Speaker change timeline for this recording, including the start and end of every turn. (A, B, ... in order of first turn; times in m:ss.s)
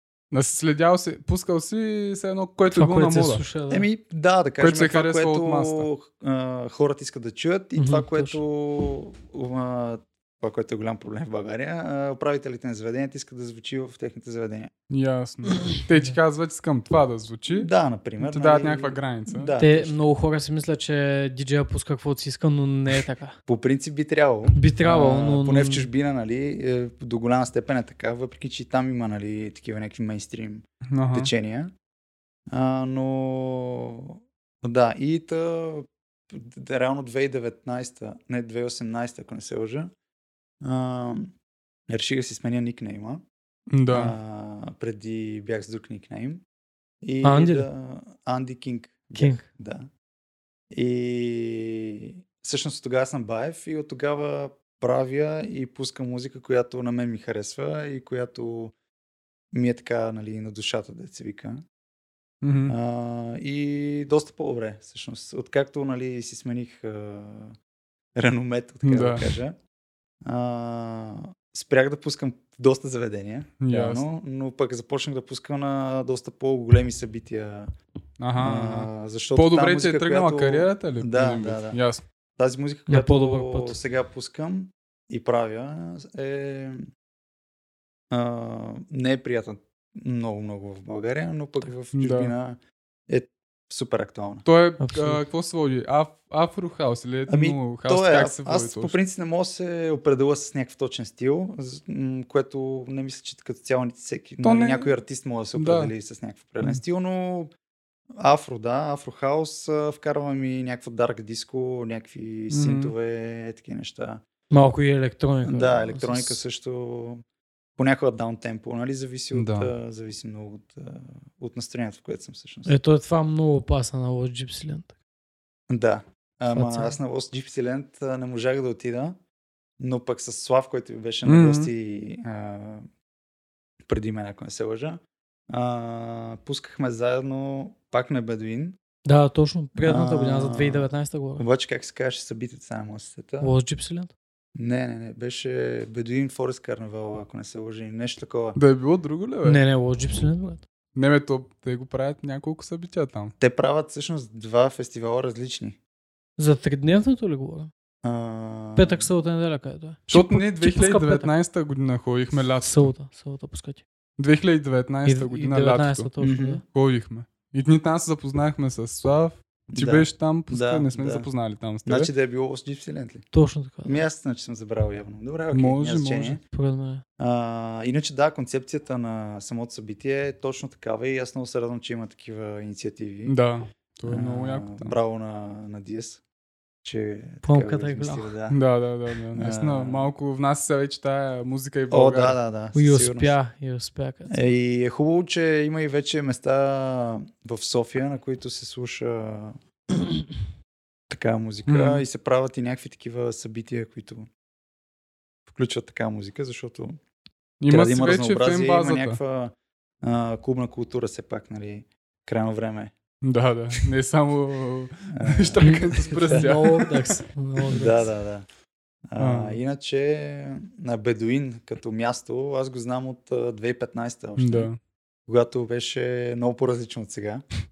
0:00.3-0:03.4 A
0:02.7-0:03.9 B
0:03.7-0:14.7 C
0:04.6-0:05.9 A
0:07.8-0:08.4 B
0:14.9-0:17.7 A
0:17.5-0:20.0 C
0:18.2-0:19.6 A
0:19.6-0:23.4 B
0:23.5-0:31.7 C
0:24.6-0:25.9 B
0:30.8-0:31.3 A
0:32.5-0:39.9 C
0:40.6-0:41.4 C
0:41.9-0:43.2 C
0:43.7-0:44.2 A
0:43.9-0:46.4 C
0:47.0-0:49.9 C
0:47.2-0:47.7 B
0:49.1-0:49.4 B
0:50.7-0:58.7 C
0:59.5-1:01.6 C
1:02.4-1:02.8 A
1:02.7-1:07.6 C
1:08.2-1:09.6 C
1:08.8-1:09.3 A
1:10.2-1:17.7 C
1:13.6-1:14.0 A
1:18.2-1:22.0 A
1:18.4-1:21.8 C
1:22.4-1:26.9 C
1:22.9-1:23.8 B
1:28.1-1:32.6 C
1:31.9-1:32.3 A
1:33.1-1:34.5 C
1:34.4-1:39.0 A
1:34.8-1:35.2 B
1:37.3-1:47.5 C
1:44.4-1:44.9 A
1:45.6-1:45.9 A
1:48.2-1:54.2 C
1:52.5-1:52.9 A
1:54.5-1:56.4 B
1:55.4-1:57.2 C
1:57.8-2:02.7 C
1:59.3-1:59.7 A
2:02.7-2:05.0 B
2:05.7-2:09.2 C
2:06.5-2:07.0 B
2:09.8-2:12.9 C
2:11.2-2:11.7 A
2:13.9-2:18.8 C
2:19.0-2:21.4 B
2:19.8-2:23.5 C
2:23.4-2:24.1 B
2:24.6-2:28.6 C
2:28.6-2:29.6 A
2:29.4-2:30.6 B
2:31.0-2:33.3 A
2:33.4-2:35.8 C
2:36.4-2:37.7 B
2:38.0-2:39.1 C
2:38.8-2:41.3 B
2:40.1-2:42.9 A
2:42.6-2:43.8 B
2:44.2-2:46.1 A
2:45.1-2:46.6 B
2:46.2-2:46.6 C
2:46.7-2:52.1 A
2:49.7-2:51.3 C
2:51.8-2:53.3 C
2:53.3-2:54.0 B
2:53.8-2:56.4 C
2:55.5-2:56.4 A
2:56.5-2:57.0 B
2:57.2-3:03.4 C
3:03.3-3:05.0 A
3:04.1-3:06.2 C
3:06.8-3:08.6 C
3:07.4-3:08.3 B
3:08.5-3:12.4 A
3:09.4-3:10.1 C
3:11.9-3:13.4 C
3:12.8-3:14.4 B
3:14.3-3:19.6 C
3:21.1-3:24.3 C
3:21.7-3:22.0 A
3:25.5-3:27.0 C
3:27.6-3:29.2 A
3:27.7-3:32.9 C
3:33.2-3:36.9 A
3:35.1-3:36.5 C
3:35.6-3:38.1 B
3:37.7-3:38.5 C
3:39.1-3:44.7 C
3:39.2-3:39.6 A
3:44.4-3:44.8 A
3:45.3-3:47.4 C